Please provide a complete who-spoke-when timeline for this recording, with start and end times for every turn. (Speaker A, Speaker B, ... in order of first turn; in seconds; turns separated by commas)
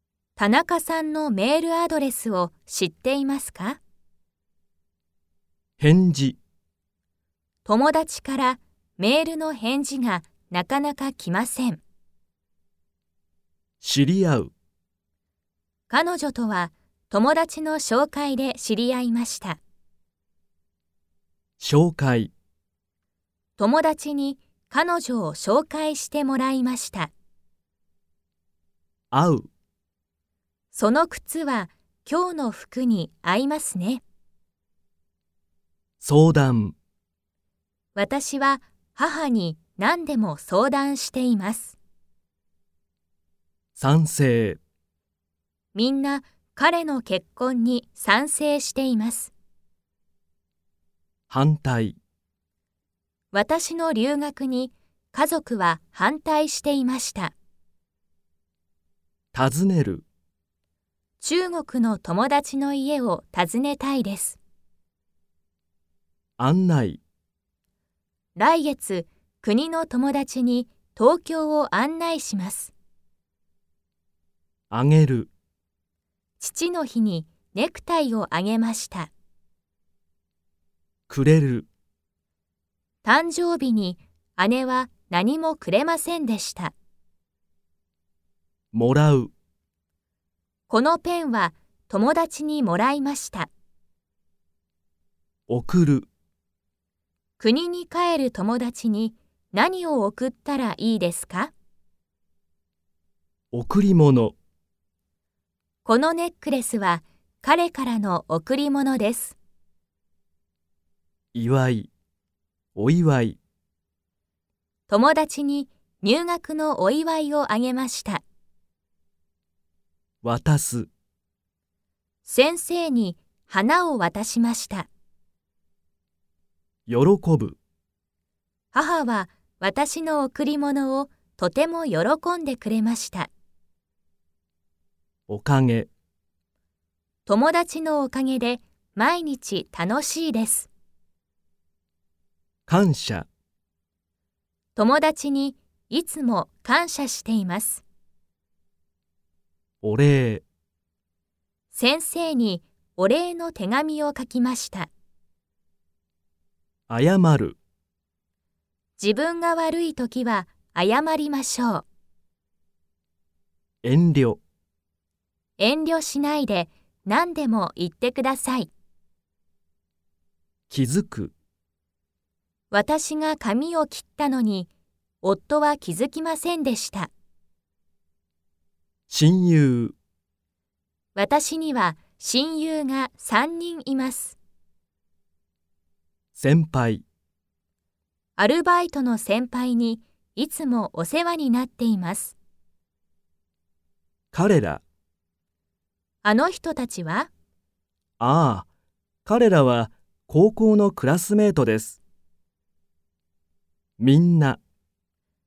Speaker A: 0.3-3.8, Speaker B: 5.8-6.4, Speaker A: 7.7-11.8, Speaker B: 13.8-14.5, Speaker A: 15.9-19.6, Speaker B: 21.6-22.3, Speaker A: 23.6-27.1, Speaker B: 29.1-29.5, Speaker A: 30.7-34.0, Speaker B: 36.0-36.7, Speaker A: 37.9-41.8, Speaker B: 43.7-44.6, Speaker A: 45.7-49.3, Speaker B: 51.3-52.0, Speaker A: 53.3-57.3, Speaker B: 59.3-60.0, Speaker A: 61.2-64.4, Speaker B: 66.4-67.0, Speaker A: 68.3-72.7, Speaker B: 74.7-75.3, Speaker A: 76.4-79.1, Speaker B: 81.1-81.7, Speaker A: 83.0-86.7, Speaker B: 88.7-89.3, Speaker A: 90.7-93.5, Speaker B: 95.5-96.1, Speaker A: 97.4-101.5, Speaker B: 103.5-104.3, Speaker A: 105.8-109.3, Speaker B: 111.3-111.9, Speaker B: 112.7-113.4, Speaker A: 114.9-118.2, Speaker B: 120.2-120.9, Speaker A: 122.2-124.9, Speaker B: 126.9-127.6, Speaker A: 128.7-133.3, Speaker B: 135.3-135.9, Speaker A: 137.2-140.7, Speaker B: 142.7-143.3, Speaker A: 144.8-147.8, Speaker B: 149.8-150.4, Speaker A: 151.7-154.9, Speaker B: 156.9-157.6, Speaker A: 159.0-161.8, Speaker B: 163.8-164.4, Speaker A: 165.6-168.7, Speaker B: 170.7-171.3, Speaker A: 172.7-174.7, Speaker A: 175.2-177.1, Speaker B: 179.1-179.9, Speaker A: 181.1-184.4, Speaker B: 186.3-187.0, Speaker A: 188.4-192.3, Speaker B: 194.3-194.8, Speaker A: 196.2-197.3, Speaker B: 198.2-198.7, Speaker B: 199.2-202.0, Speaker B: 204.0-204.6